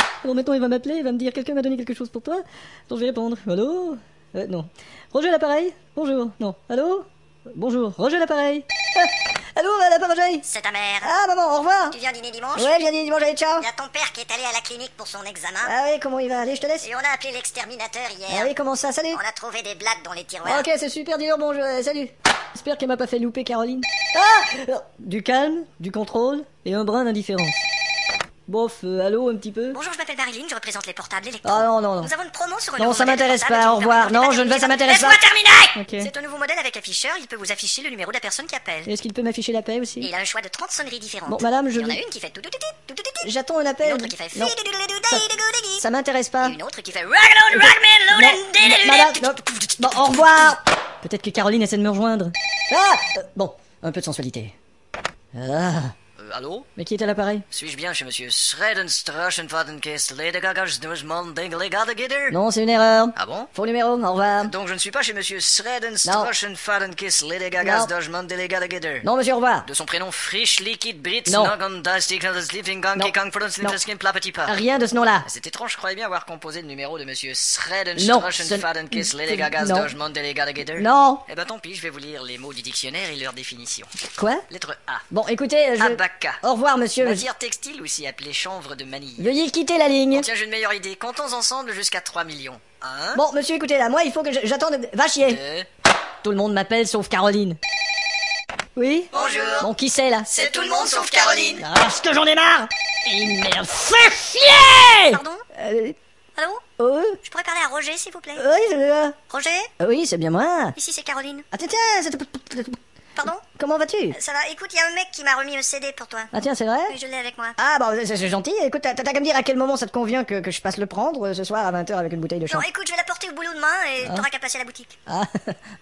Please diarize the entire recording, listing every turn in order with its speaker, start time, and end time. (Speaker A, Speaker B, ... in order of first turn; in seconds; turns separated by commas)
Speaker A: 0.2-10.4, Speaker B: 10.4-11.1, Speaker A: 11.0-11.9, Speaker B: 11.9-12.8, Speaker A: 12.5-13.7, Speaker B: 13.6-15.7, Speaker A: 15.6-16.9, Speaker B: 16.8-18.5, Speaker A: 18.3-19.2, Speaker B: 19.1-20.6, Speaker A: 20.4-27.7, Speaker A: 28.5-29.8, Speaker B: 29.7-38.9, Speaker A: 31.4-32.1, Speaker A: 32.8-35.2, Speaker A: 35.8-36.1, Speaker A: 38.9-40.1, Speaker B: 40.0-43.3, Speaker A: 41.3-42.0, Speaker A: 43.2-44.5, Speaker B: 43.8-45.8, Speaker A: 45.8-46.6, Speaker B: 46.4-50.5, Speaker A: 47.5-54.5, Speaker A: 55.3-55.9, Speaker C: 56.2-56.7, Speaker A: 56.8-57.5, Speaker C: 57.5-62.4, Speaker A: 62.3-64.5, Speaker C: 63.1-63.5, Speaker C: 64.4-69.1, Speaker A: 66.0-66.3, Speaker A: 67.6-67.9, Speaker A: 69.0-69.7, Speaker C: 69.7-74.6, Speaker A: 71.3-71.5, Speaker A: 73.0-73.8, Speaker A: 74.4-75.3, Speaker C: 75.2-83.9, Speaker A: 78.0-79.9, Speaker A: 80.8-81.2, Speaker A: 84.1-84.4, Speaker C: 84.5-85.0, Speaker A: 85.1-87.3, Speaker C: 85.8-86.4, Speaker C: 87.0-89.3, Speaker A: 89.2-90.3, Speaker C: 90.1-93.2, Speaker A: 93.1-95.4, Speaker C: 95.2-95.7, Speaker A: 96.2-97.6, Speaker A: 98.8-100.5, Speaker C: 99.1-99.7, Speaker C: 100.3-101.6, Speaker B: 100.4-101.6, Speaker A: 101.5-105.9, Speaker B: 105.1-105.4, Speaker B: 106.3-106.6, Speaker A: 106.8-107.2, Speaker B: 107.2-108.4, Speaker A: 108.3-109.2, Speaker B: 109.3-109.7, Speaker A: 109.8-110.7, Speaker B: 110.8-111.5, Speaker A: 111.5-112.8, Speaker B: 113.2-113.4, Speaker A: 113.3-114.2, Speaker B: 114.1-116.3, Speaker A: 116.3-117.0, Speaker B: 116.9-117.6, Speaker A: 117.6-122.7, Speaker B: 122.5-125.0, Speaker A: 125.1-125.7